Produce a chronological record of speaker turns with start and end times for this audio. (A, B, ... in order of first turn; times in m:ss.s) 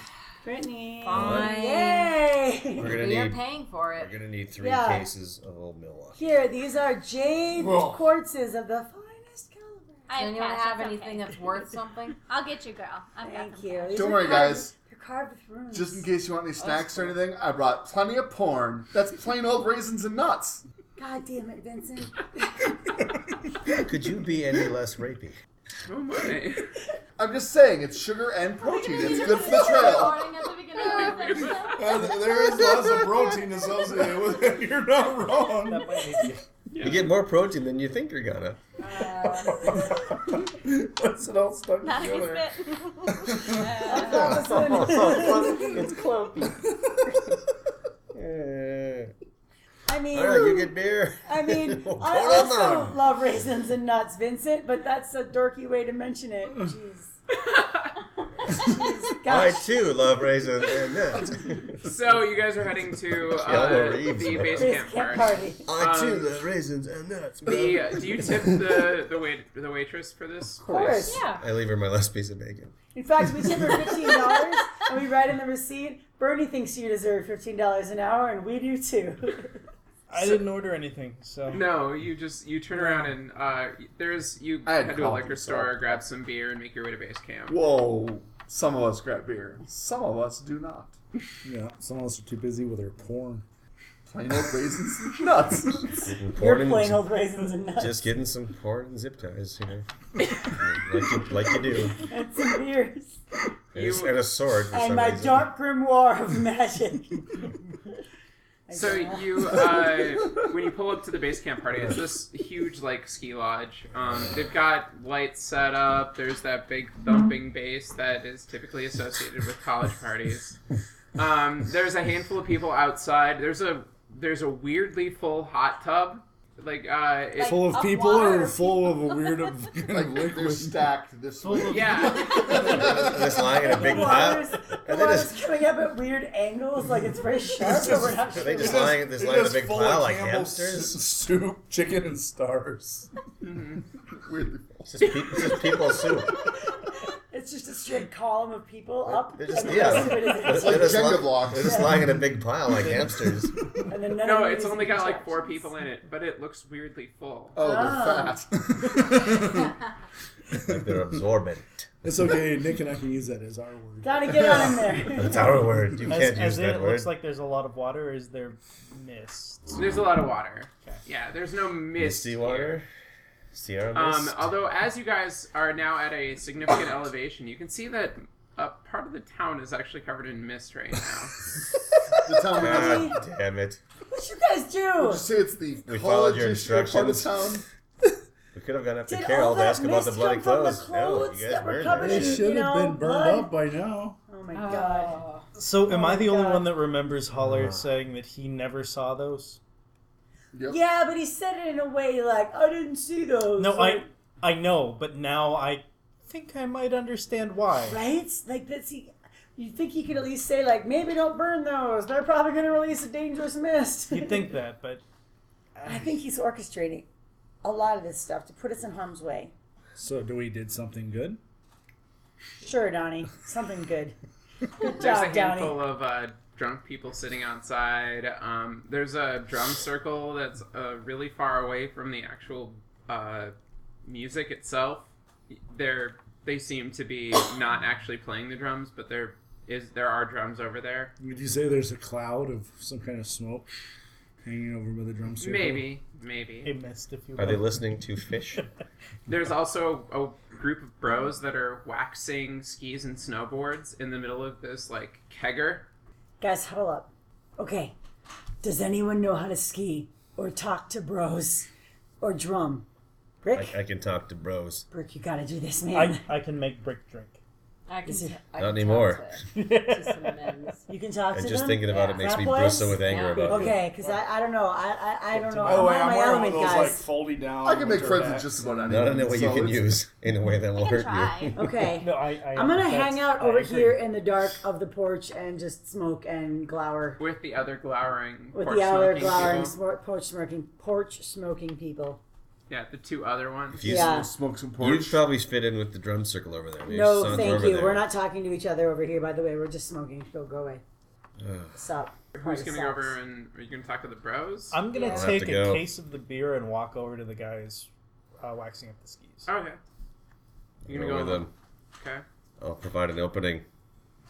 0:00.4-0:03.1 A
0:01.0-0:02.2 B
0:01.1-0:01.5 C
0:02.8-0:06.2 C
0:02.8-0:04.1 B
0:04.6-0:05.1 A
0:06.2-0:10.1 A
0:07.6-0:08.0 D
0:10.1-0:11.4 E
0:10.1-0:12.2 B
0:12.3-0:14.4 E
0:13.2-0:16.1 A
0:13.9-0:14.7 F
0:15.7-0:20.6 F
0:16.6-0:17.1 B
0:21.0-0:23.0 A
0:23.7-0:25.4 C
0:25.9-0:26.7 G
0:27.2-0:30.3 F
0:28.8-0:32.1 E
0:29.2-0:29.8 A
0:30.8-0:31.7 G
0:31.0-0:31.3 B
0:31.7-0:36.4 D
0:35.7-0:36.4 H
0:36.7-0:37.1 G
0:36.8-0:38.6 C
0:38.8-0:39.9 B
0:39.3-0:42.5 D
0:41.8-0:44.4 E
0:43.2-0:43.6 D
0:43.8-0:45.9 A
0:44.0-0:46.7 C
0:48.1-0:49.1 C
0:49.9-0:57.2 A
0:50.1-0:53.0 C
0:57.4-0:57.9 G
0:58.4-0:59.8 A
0:59.2-1:01.9 C
1:01.8-1:06.4 G
1:03.3-1:04.8 C
1:04.6-1:05.7 A
1:05.7-1:08.2 C
1:07.4-1:11.0 G
1:10.7-1:11.0 F
1:10.7-1:11.3 A
1:11.0-1:11.4 B
1:11.3-1:12.7 C
1:12.9-1:19.5 A
1:20.1-1:21.6 H
1:21.5-1:27.6 G
1:22.7-1:23.1 H
1:24.7-1:26.0 F
1:27.5-1:31.0 F
1:31.4-1:33.4 D
1:34.1-1:35.9 F
1:36.0-1:37.0 C
1:36.3-1:38.0 A
1:37.8-1:39.9 C
1:40.4-1:42.1 C
1:42.0-1:43.2 A
1:43.7-1:45.5 C
1:43.8-1:44.2 G
1:44.7-1:47.5 A
1:48.7-1:49.9 A
1:48.7-2:00.6 G
2:01.2-2:07.6 G
2:07.4-2:10.9 D
2:07.4-2:08.8 E
2:09.9-2:13.4 F
2:11.4-2:12.8 H
2:11.7-2:12.7 G
2:12.7-2:15.4 C
2:13.4-2:19.0 A
2:17.6-2:23.1 D
2:18.3-2:21.0 C
2:23.4-2:23.8 G
2:24.2-2:24.9 F
2:24.8-2:26.3 C
2:27.3-2:32.0 A
2:29.1-2:33.5 C
2:30.4-2:31.8 F
2:33.9-2:35.7 A
2:34.2-2:37.6 G
2:37.6-2:39.0 F
2:37.6-2:38.4 A
2:38.8-2:39.4 D
2:40.5-2:41.9 C
2:40.6-2:40.9 D
2:42.0-2:45.1 D
2:44.0-2:45.7 A
2:45.2-2:47.1 C
2:46.1-2:49.8 H
2:49.8-2:52.8 G
2:52.0-2:52.9 C
2:53.5-2:54.4 C
2:53.9-3:01.4 G
3:02.3-3:03.1 F
3:02.5-3:03.2 A
3:02.6-3:03.8 C
3:04.1-3:05.3 A
3:05.0-3:07.6 F
3:05.9-3:07.4 C
3:08.5-3:12.5 C
3:09.1-3:13.6 A
3:12.0-3:14.2 D
3:14.3-3:15.2 A
3:14.5-3:15.5 B
3:15.6-3:19.6 H
3:15.8-3:16.7 A
3:17.4-3:17.9 C
3:20.5-3:20.8 F
3:20.7-3:24.1 A
3:23.6-3:28.0 H
3:27.9-3:34.5 A
3:34.1-3:35.0 H
3:35.8-3:36.2 H
3:35.9-3:37.1 A
3:37.6-3:39.5 A
3:40.0-3:41.4 D
3:42.6-3:44.2 A
3:44.8-3:45.8 A
3:44.8-4:01.1 G
4:01.2-4:03.7 D
4:04.4-4:05.9 D
4:05.4-4:06.7 G
4:06.6-4:08.1 H
4:07.4-4:08.7 C
4:09.3-4:15.9 G
4:16.4-4:18.0 A
4:18.6-4:21.7 A
4:22.2-4:22.9 A
4:23.4-4:23.8 A
4:23.5-4:24.9 C
4:24.9-4:26.3 A
4:25.9-4:27.4 H
4:27.9-4:30.9 B
4:28.1-4:28.4 A
4:28.6-4:29.4 C
4:29.5-4:30.7 H
4:30.9-4:37.1 A
4:31.3-4:33.8 C
4:33.0-4:33.8 B
4:35.4-4:35.8 H
4:35.6-4:39.0 D
4:37.6-4:40.0 F
4:38.9-4:41.7 C
4:40.8-4:41.6 E
4:41.6-4:47.2 A
4:42.0-4:44.0 H
4:47.2-4:49.8 G
4:48.5-4:52.2 A
4:52.7-4:53.8 G
4:53.7-4:58.1 C
4:53.8-4:54.3 A
4:53.9-4:55.2 F
4:56.8-5:00.8 A
5:01.4-5:01.8 C
5:01.8-5:03.2 A
5:02.3-5:04.8 G
5:04.7-5:07.9 H
5:05.0-5:05.9 C
5:08.4-5:09.5 H
5:09.5-5:09.8 G
5:10.8-5:11.5 C
5:10.9-5:12.2 G
5:12.6-5:13.6 C